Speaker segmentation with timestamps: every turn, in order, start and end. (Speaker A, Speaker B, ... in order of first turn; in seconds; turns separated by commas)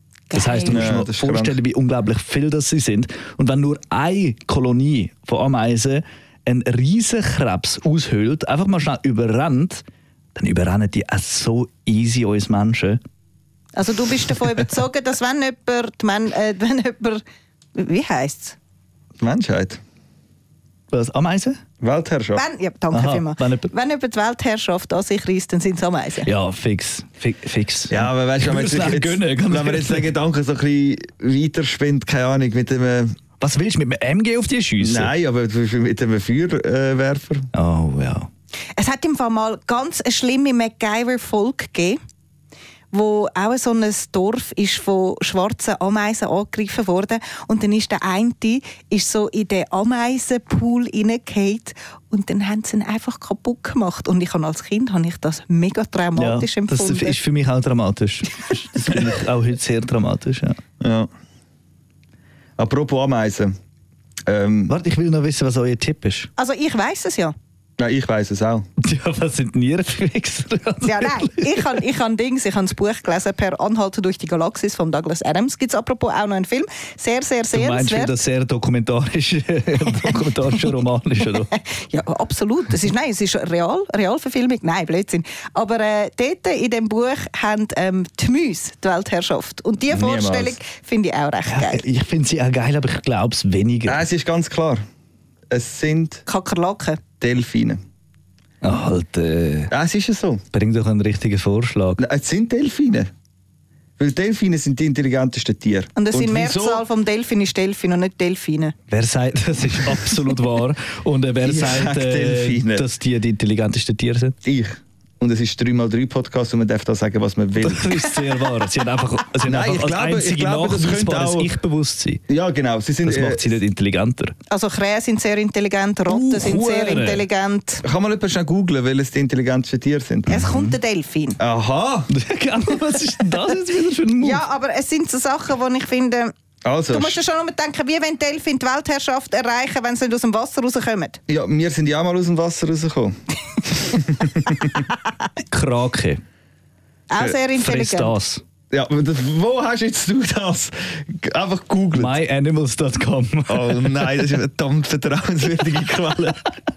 Speaker A: 0.3-0.9, Speaker B: 0.3-9.8, Speaker C: 0.7-1.6, Speaker B: 10.3-13.0, Speaker A: 13.8-17.2, Speaker A: 17.8-18.6, Speaker C: 19.2-19.8, Speaker B: 20.9-21.6, Speaker C: 21.8-22.4, Speaker A: 22.4-26.3, Speaker B: 22.9-23.7, Speaker B: 26.2-30.1, Speaker C: 27.9-33.2, Speaker B: 33.4-35.1, Speaker C: 34.8-37.5, Speaker B: 37.5-38.3, Speaker A: 38.8-42.0, Speaker A: 42.9-57.2, Speaker B: 56.2-60.6, Speaker C: 58.9-59.1, Speaker C: 60.8-61.1, Speaker C: 62.6-63.5, Speaker C: 64.3-64.8, Speaker B: 64.7-66.3, Speaker A: 66.4-67.3, Speaker C: 67.8-68.7, Speaker B: 68.8-71.8, Speaker A: 70.8-78.2, Speaker B: 77.5-81.5, Speaker A: 80.1-80.7, Speaker A: 81.3-91.8, Speaker C: 89.9-90.6, Speaker B: 91.5-94.0, Speaker C: 93.9-94.8, Speaker C: 95.5-96.2, Speaker A: 96.3-97.0, Speaker C: 97.2-97.8, Speaker B: 98.6-99.7, Speaker C: 99.7-100.4, Speaker B: 100.5-102.0, Speaker C: 102.0-103.1, Speaker C: 104.0-106.8, Speaker A: 106.0-108.8, Speaker B: 108.9-114.4, Speaker C: 111.4-112.9, Speaker C: 114.4-118.0, Speaker B: 117.6-122.2, Speaker C: 119.5-121.5, Speaker C: 122.3-123.6, Speaker B: 123.0-124.3, Speaker A: 124.5-127.8, Speaker B: 126.1-127.3, Speaker C: 127.8-130.4, Speaker B: 130.3-130.8, Speaker A: 130.3-131.4, Speaker C: 131.4-132.1, Speaker B: 132.1-134.4, Speaker A: 134.2-136.3, Speaker C: 136.7-137.2, Speaker A: 136.9-141.2, Speaker C: 141.3-143.2, Speaker C: 143.7-144.9, Speaker B: 145.5-146.2, Speaker A: 147.1-148.2, Speaker B: 147.4-148.4, Speaker C: 148.7-152.2, Speaker B: 151.9-154.2, Speaker C: 153.5-156.4